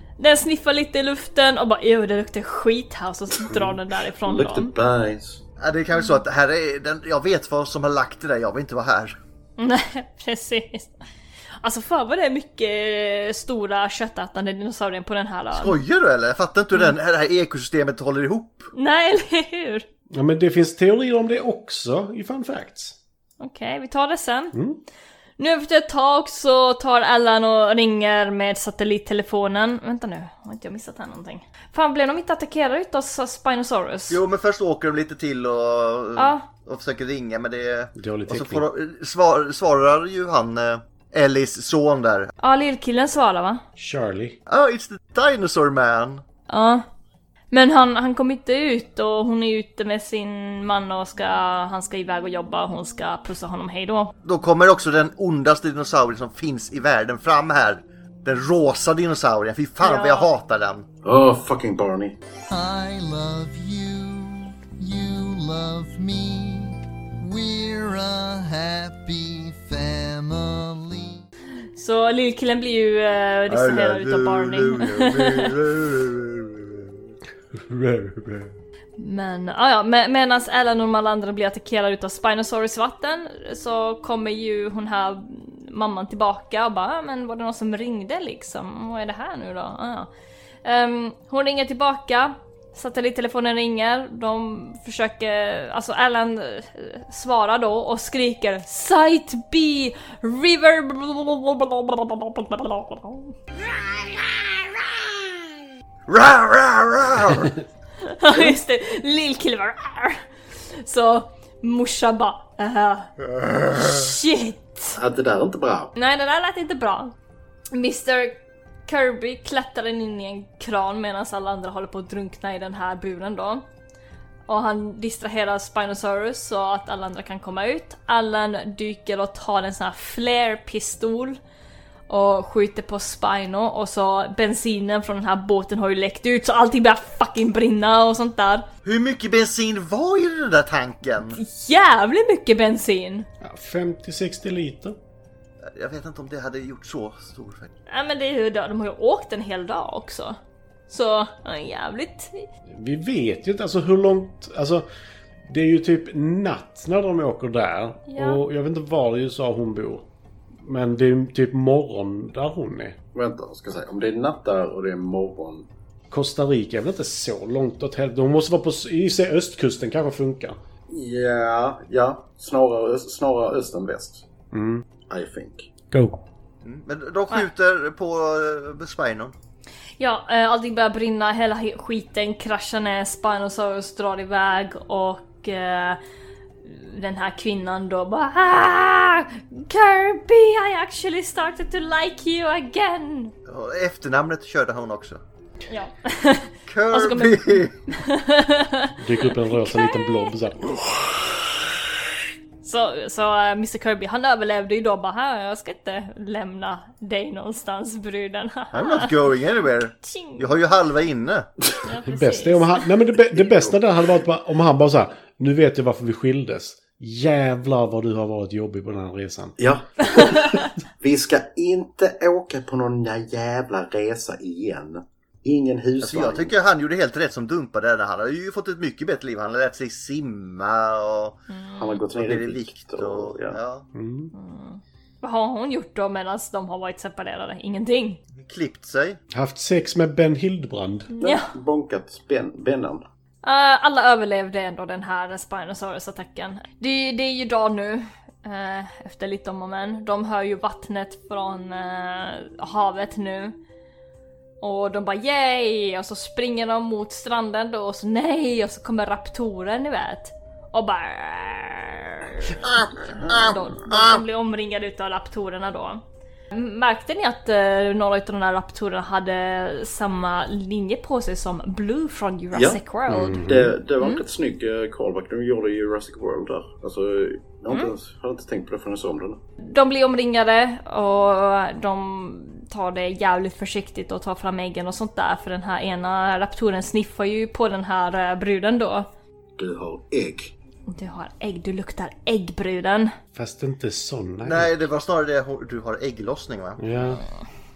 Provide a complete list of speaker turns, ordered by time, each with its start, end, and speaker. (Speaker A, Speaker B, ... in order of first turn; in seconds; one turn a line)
Speaker A: 0.2-4.7
Speaker B: 3.5-5.4
Speaker C: 5.6-9.2
Speaker A: 9.6-10.9
Speaker A: 11.6-15.8
Speaker C: 15.5-18.7
Speaker A: 18.7-19.9
Speaker D: 20.1-22.9
Speaker A: 23.4-24.6
Speaker D: 24.5-24.8
Speaker A: 25.4-34.2
Speaker C: 34.1-42.3
Speaker A: 36.2-36.5
Speaker D: 38.0-38.6
Speaker A: 42.4-43.6
Speaker D: 43.8-44.4
Speaker C: 44.5-46.2
Speaker A: 46.5-46.8
Speaker A: 47.5-54.1
Speaker C: 54.2-60.9
Speaker A: 59.8-60.3
Speaker B: 61.0-62.2
Speaker E: 62.5-71.2
Speaker A: 71.8-75.5
Speaker C: 73.5-77.1
Speaker D: 77.5-78.5
Speaker A: 79.0-90.1
Speaker A: 90.7-103.4
Speaker C: 106.1-107.5
Speaker A: 108.0-110.2
Speaker A: 110.7-113.1
Speaker A: 113.7-115.0
Speaker B: 115.0-115.9
Speaker A: 116.0-117.2
Speaker A: 117.7-123.7
Speaker A: 124.5-131.4
Speaker A: 132.1-138.7
Speaker C: 138.8-141.4
Speaker A: 141.3-143.3
Speaker D: 143.4-145.0
Speaker C: 145.6-147.7
Speaker A: 147.9-150.4
Speaker A: 150.9-152.5
Speaker D: 152.8-154.9
Speaker D: 155.5-160.1
Speaker A: 158.1-158.4
Speaker D: 160.6-163.0
Speaker B: 163.2-165.7
Speaker D: 166.1-170.6
Speaker B: 170.9-174.2
Speaker D: 174.5-174.8
Speaker B: 175.1-175.7
Speaker D: 175.9-176.2
Speaker C: 176.6-179.3
Speaker A: 180.0-186.0
Speaker A: 186.7-193.3
Speaker C: 193.5-195.2
Speaker A: 195.7-200.3
Speaker C: 196.7-197.8
Speaker D: 199.0-200.8
Speaker A: 202.6-209.1
Speaker C: 208.7-211.5
Speaker A: 210.0-210.5
Speaker A: 211.8-212.8
Speaker D: 212.1-219.6
Speaker B: 213.4-213.8
Speaker B: 219.6-226.5
Speaker A: 220.2-220.5
Speaker C: 226.0-231.4
Speaker A: 231.5-232.0
Speaker B: 231.8-233.6
Speaker C: 232.2-233.9
Speaker D: 233.9-234.3
Speaker A: 234.3-238.2
Speaker C: 238.3-239.2
Speaker D: 239.3-241.1
Speaker A: 241.1-241.5
Speaker B: 241.2-243.0
Speaker A: 243.4-253.6
Speaker A: 254.6-273.4
Speaker B: 272.5-272.8
Speaker D: 273.1-273.7
Speaker B: 273.4-279.4
Speaker A: 279.6-289.1
Speaker B: 289.6-290.5
Speaker A: 290.9-293.1
Speaker D: 293.4-294.7
Speaker C: 294.4-296.8
Speaker D: 296.8-297.2